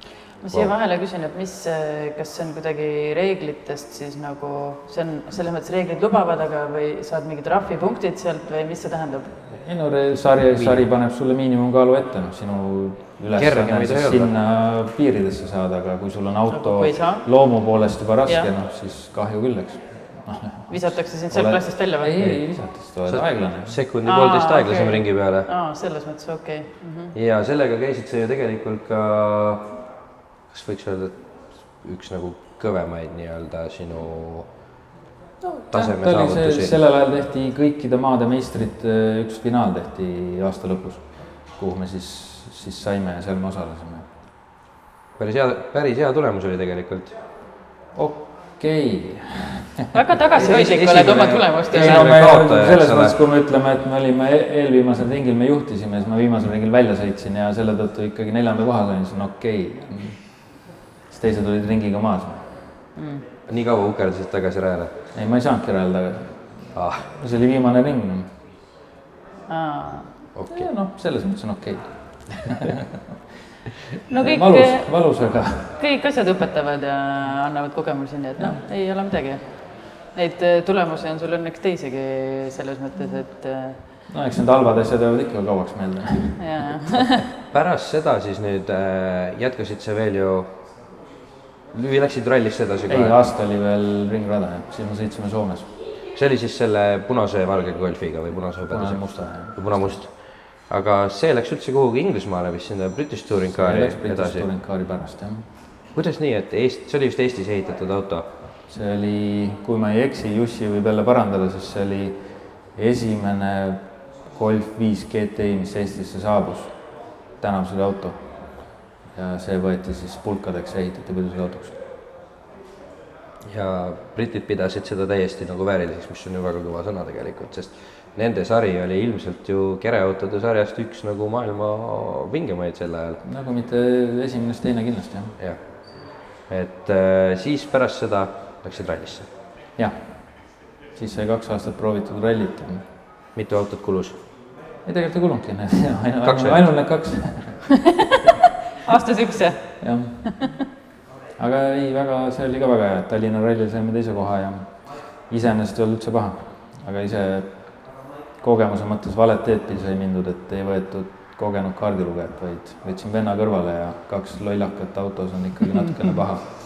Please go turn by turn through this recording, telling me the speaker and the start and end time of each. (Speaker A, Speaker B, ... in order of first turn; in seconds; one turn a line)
Speaker A: 0.4-9.3
Speaker B: 9.5-23.8
Speaker C: 10.6-10.8
Speaker C: 13.4-14.3
Speaker A: 16.5-17.2
Speaker A: 20.7-22.1
Speaker C: 23.1-25.5
Speaker A: 24.1-27.1
Speaker C: 27.1-29.7
Speaker C: 30.5-31.1
Speaker C: 31.7-34.5
Speaker C: 35.7-36.7
Speaker B: 35.7-44.1
Speaker C: 45.2-47.1
Speaker B: 48.0-49.9
Speaker A: 49.9-52.1
Speaker C: 50.3-53.1
Speaker B: 51.7-62.5
Speaker A: 63.0-63.2
Speaker C: 63.5-64.9
Speaker B: 65.1-66.4
Speaker C: 66.8-67.1
Speaker B: 67.1-68.3
Speaker A: 69.5-70.1
Speaker C: 70.3-70.7
Speaker B: 70.5-73.0
Speaker A: 74.1-74.9
Speaker B: 74.2-75.8
Speaker A: 75.8-83.8
Speaker B: 84.1-86.4
Speaker A: 86.4-87.2
Speaker C: 87.5-90.5
Speaker C: 91.7-93.3
Speaker B: 92.9-95.7
Speaker C: 96.2-104.5
Speaker B: 98.7-100.0
Speaker B: 103.5-105.5
Speaker C: 105.9-108.3
Speaker B: 108.7-112.2
Speaker B: 112.8-116.8
Speaker B: 117.4-118.5
Speaker B: 119.1-121.8
Speaker C: 123.5-133.2
Speaker B: 133.2-135.4
Speaker C: 135.4-139.3
Speaker B: 139.8-142.9
Speaker C: 143.3-144.2
Speaker B: 144.9-147.7
Speaker C: 146.2-146.7
Speaker A: 148.8-150.5
Speaker B: 149.8-150.3
Speaker B: 151.4-166.4